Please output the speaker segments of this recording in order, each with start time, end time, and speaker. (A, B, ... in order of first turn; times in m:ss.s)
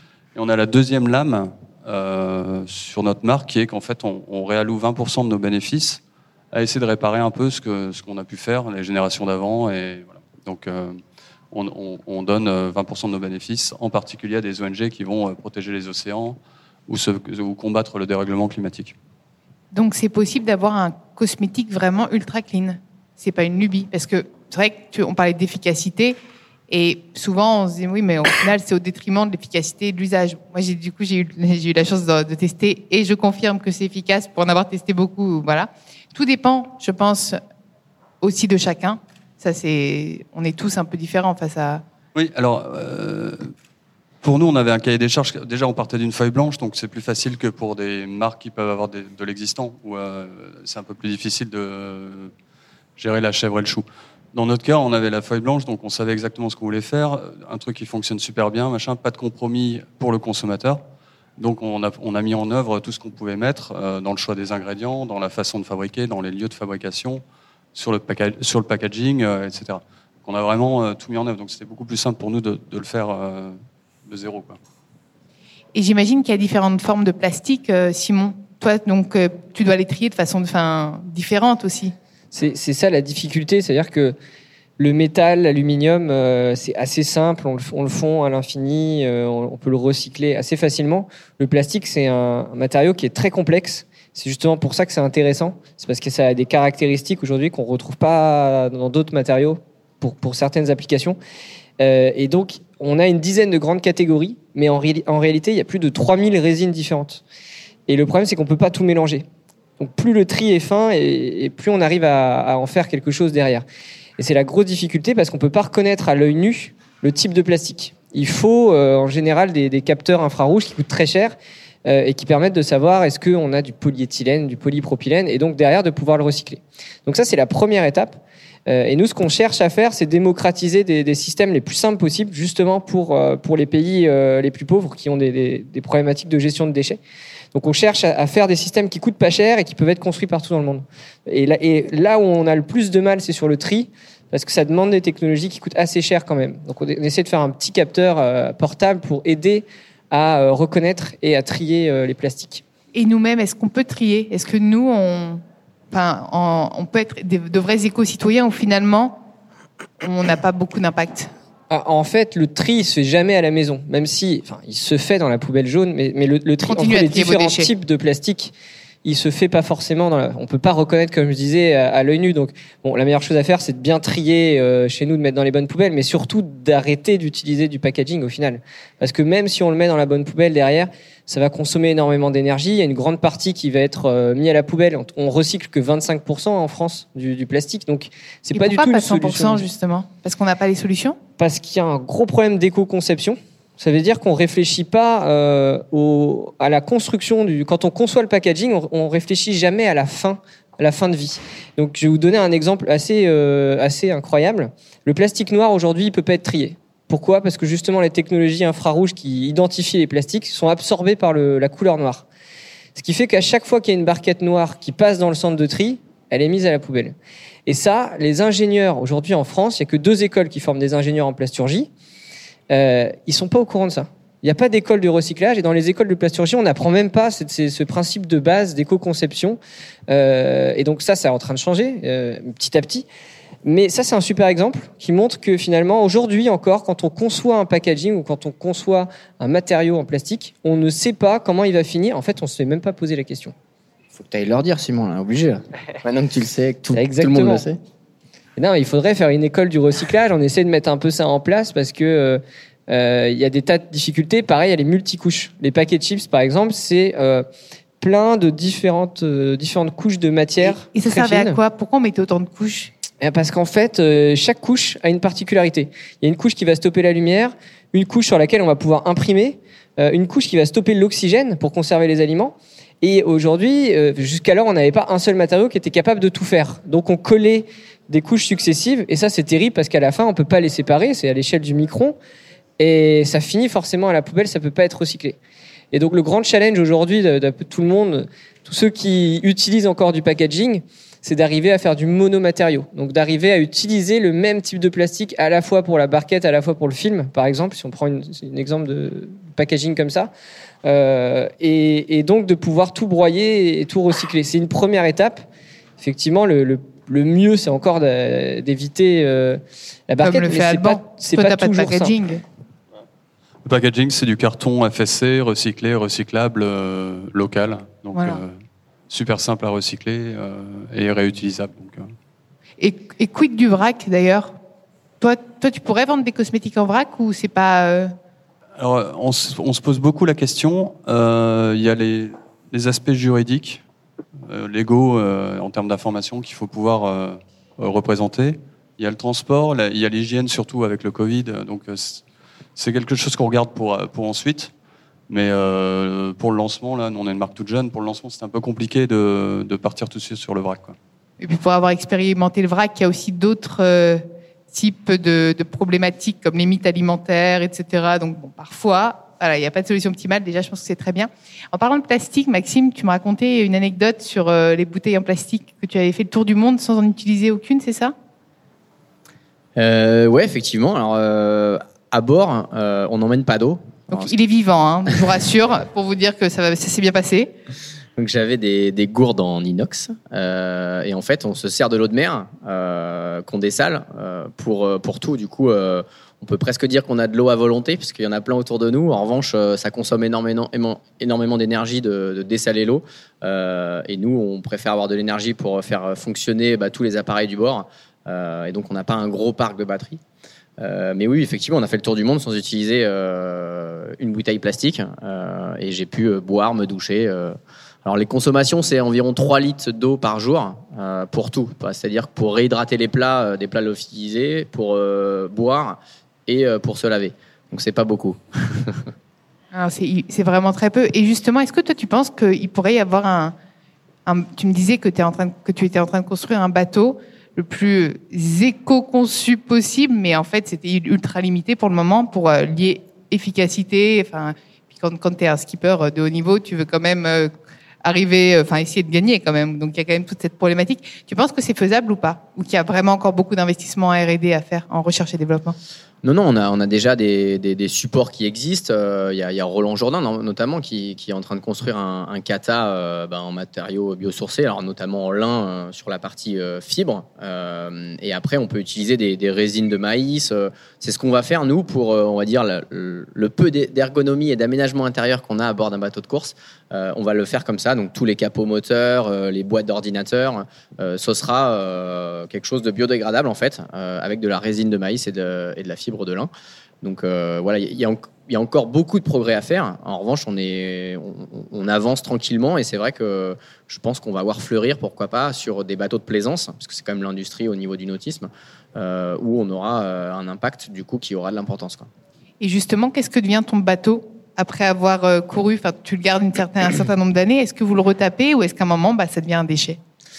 0:00.3-0:06.0 A
0:06.5-0:11.0 A
0:11.5-0:18.9 A
0:19.7-0:26.2 B
0:26.7-0:37.4 B
0:38.2-0:41.8 B
0:42.1-0:43.5 A
0:44.2-0:52.3 A
0:53.0-1:00.8 A
1:01.4-1:07.2 A
1:07.7-1:14.6 A
1:15.7-1:21.9 B
1:22.3-1:24.1 C
1:24.8-1:41.2 C
1:41.8-1:47.2 C
1:47.9-1:49.2 C
1:49.8-1:53.6 C
1:54.2-2:17.0 C
2:17.5-2:32.6 C
2:32.9-2:39.2 B
2:40.0-2:41.3 B
2:41.7-2:48.5 C
2:46.6-2:47.7 B
2:49.0-3:09.7 C
3:08.5-3:11.2 B
3:11.4-3:32.2 C
3:32.9-3:37.1 C
3:37.6-3:41.9 C
3:42.7-3:53.0 C
3:53.6-4:03.5 C
4:04.1-4:07.8 D
4:06.9-4:07.6 C
4:08.6-4:17.4 C
4:18.0-4:21.6 C
4:20.6-4:22.9 B
4:23.2-4:42.2 C
4:42.8-4:45.4 C
4:45.9-5:00.3 C
5:00.8-5:05.4 C
5:06.0-5:12.1 C
5:10.2-5:12.4 B
5:13.6-5:18.6 A
5:18.1-5:18.4 B
5:19.1-5:22.1 A
5:22.8-5:24.5 B
5:25.2-5:28.1 B
5:28.8-5:33.8 A
5:34.5-5:42.2 A
5:42.8-5:44.7 A
5:45.3-5:51.0 A
5:51.4-6:08.1 B
6:09.8-6:14.3 D
6:14.1-6:17.5 B
6:18.2-6:40.2 D
6:40.8-6:59.1 D
6:59.7-7:03.5 B
7:04.2-7:17.5 B
7:18.0-7:25.8 B
7:26.2-7:56.5 D
7:57.0-8:12.1 D
8:12.6-8:20.0 B